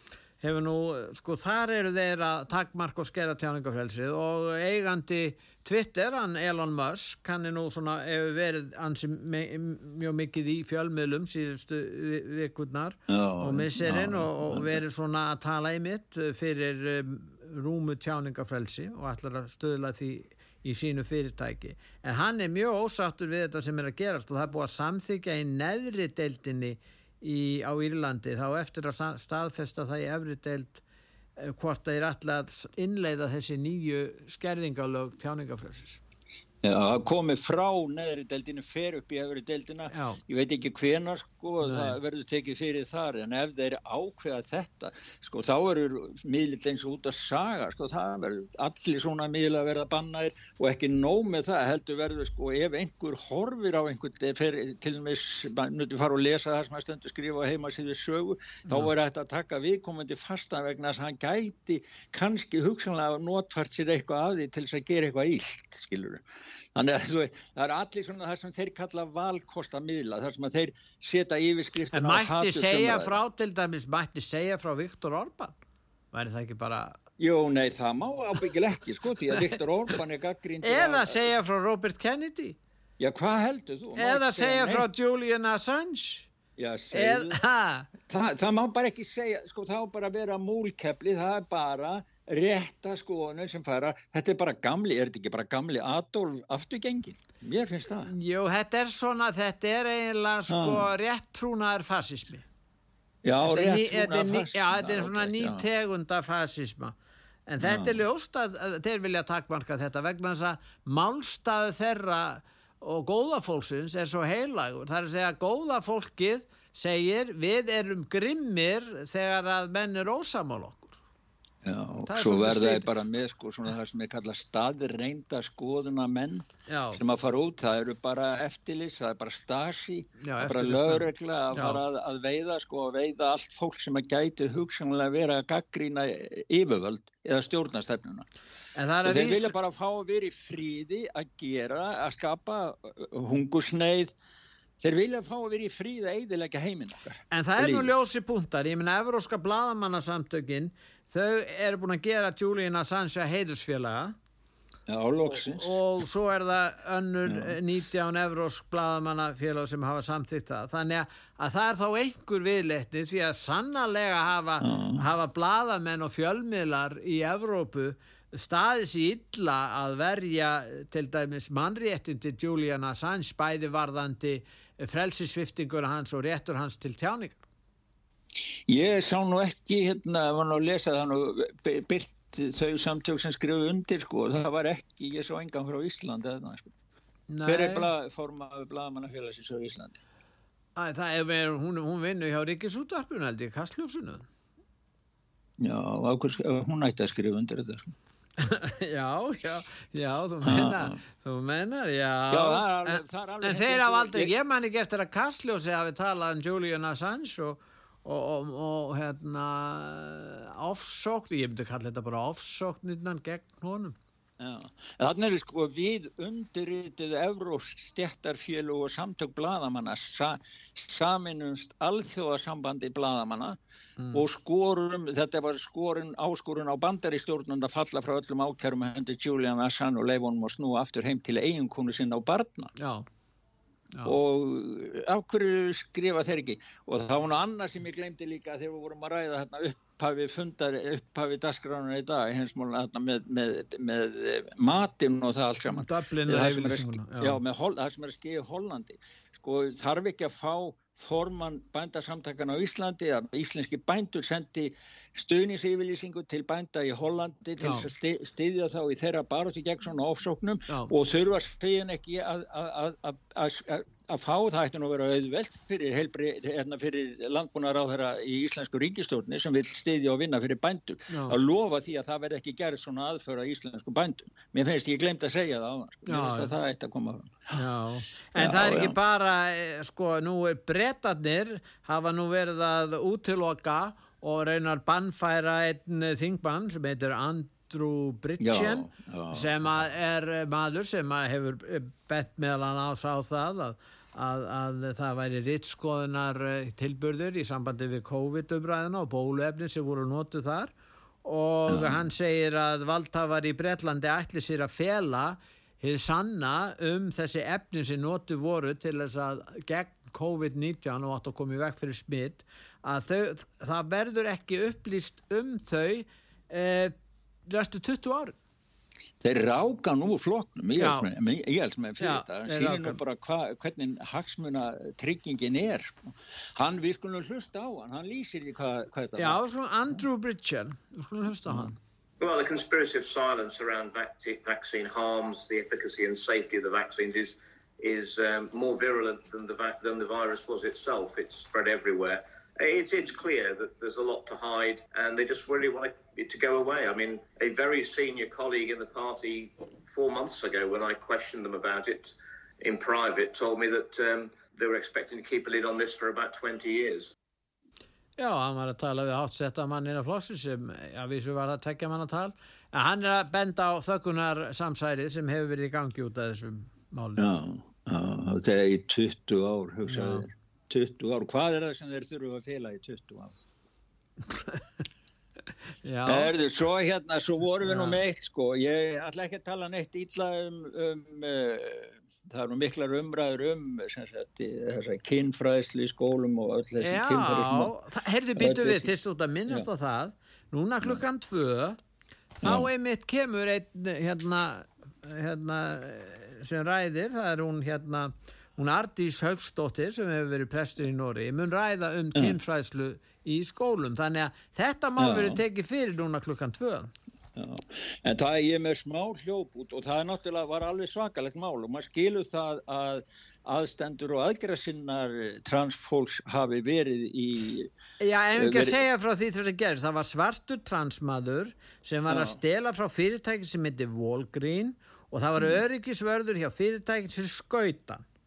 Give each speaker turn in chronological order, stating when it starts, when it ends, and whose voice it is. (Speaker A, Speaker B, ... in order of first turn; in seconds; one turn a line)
Speaker A: 0.4-30.8
Speaker B: 13.1-14.8
Speaker A: 31.4-36.0
Speaker B: 36.6-66.2
Speaker A: 39.9-40.2
Speaker A: 41.6-42.0
Speaker B: 66.7-73.2
Speaker A: 71.9-75.5
Speaker A: 76.1-77.0
Speaker B: 77.2-81.3
Speaker A: 80.6-82.6
Speaker B: 83.0-84.8
Speaker A: 84.0-86.3
Speaker B: 86.6-87.4
Speaker A: 86.9-87.9
Speaker B: 88.1-98.1
Speaker A: 98.1-102.4
Speaker B: 100.5-100.9
Speaker B: 103.2-105.7
Speaker A: 103.4-106.9
Speaker A: 107.5-121.0
Speaker B: 107.6-108.0
Speaker B: 121.6-138.2
Speaker A: 122.1-122.9
Speaker A: 126.7-127.0
Speaker A: 130.2-131.8
Speaker A: 138.8-139.5
Speaker B: 139.0-144.1
Speaker B: 144.8-147.9
Speaker A: 147.3-154.1
Speaker B: 154.9-155.8
Speaker A: 155.3-177.3
Speaker B: 157.3-157.6
Speaker B: 164.6-165.0
Speaker B: 178.7-186.7
Speaker A: 187.3-187.9
Speaker B: 187.4-190.0
Speaker A: 190.8-194.2
Speaker B: 195.6-197.9
Speaker A: 198.4-213.9
Speaker B: 200.4-201.0
Speaker B: 202.3-204.3
Speaker B: 214.4-223.6
Speaker A: 224.0-224.2
Speaker B: 224.1-232.7
Speaker A: 232.8-233.0
Speaker B: 234.0-277.6
Speaker A: 245.8-247.4
Speaker A: 257.6-257.9
Speaker A: 276.1-276.5
Speaker A: 277.5-300.7
Speaker B: 278.4-278.9
Speaker B: 288.4-289.8
Speaker A: 301.2-316.9
Speaker B: 301.7-302.0
Speaker A: 317.5-318.4
Speaker B: 319.2-329.4
Speaker A: 320.8-321.1
Speaker A: 322.0-323.0
Speaker A: 329.2-331.7
Speaker B: 331.4-331.7
Speaker C: 332.2-357.1
Speaker A: 358.2-367.2
Speaker B: 367.2-373.3
Speaker A: 369.9-370.2
Speaker A: 374.3-374.6
Speaker A: 375.8-376.3
Speaker B: 376.1-387.7
Speaker A: 377.6-378.0
Speaker A: 386.8-391.8
Speaker B: 388.4-388.9
Speaker A: 392.4-406.9
Speaker B: 392.4-392.7
Speaker B: 405.0-405.4
Speaker B: 407.4-417.7
Speaker A: 418.0-428.0
Speaker B: 418.4-418.8
Speaker B: 422.1-422.4